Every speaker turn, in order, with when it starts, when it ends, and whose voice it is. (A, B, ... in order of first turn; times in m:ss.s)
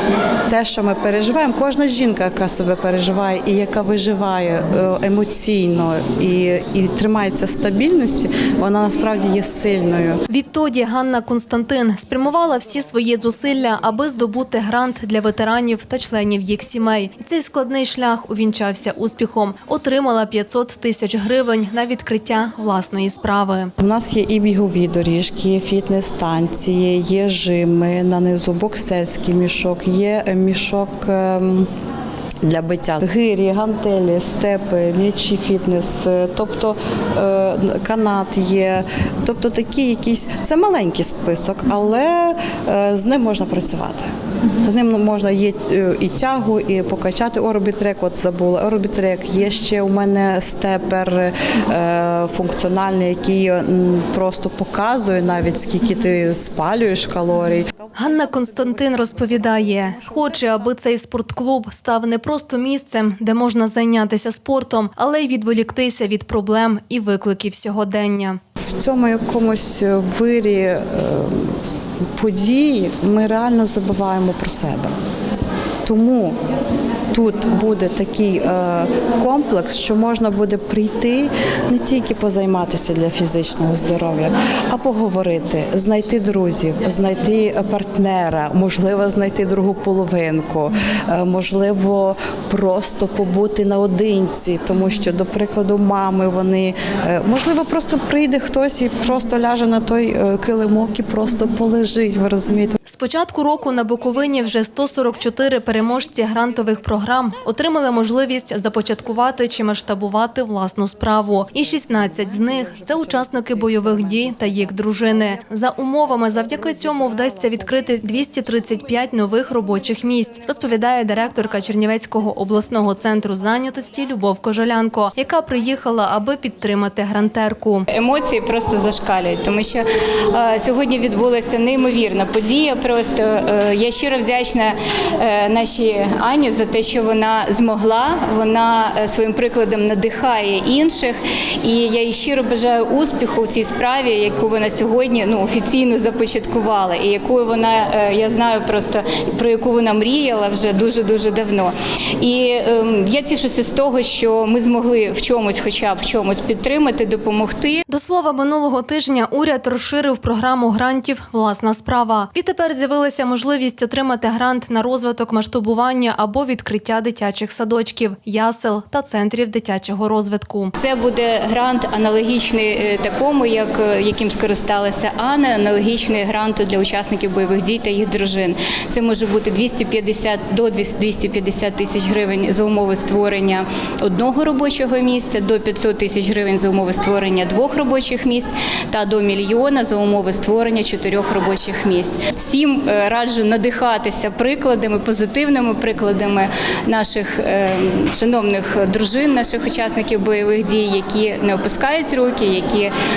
0:00.5-0:10.2 A
0:10.3-0:23.7 B
0:23.8-0:31.7 A
0:32.4-0:44.1 A
0:44.6-1:00.6 A
0:58.0-1:08.4 B
1:08.6-1:11.6 A
1:12.2-1:14.9 A
1:15.8-1:16.4 A
1:17.1-1:42.8 A
1:42.8-2:07.8 B
1:52.2-1:55.4 A
1:56.5-1:57.6 A
2:07.9-2:37.8 C
2:37.9-2:50.7 B
2:50.8-3:22.9 C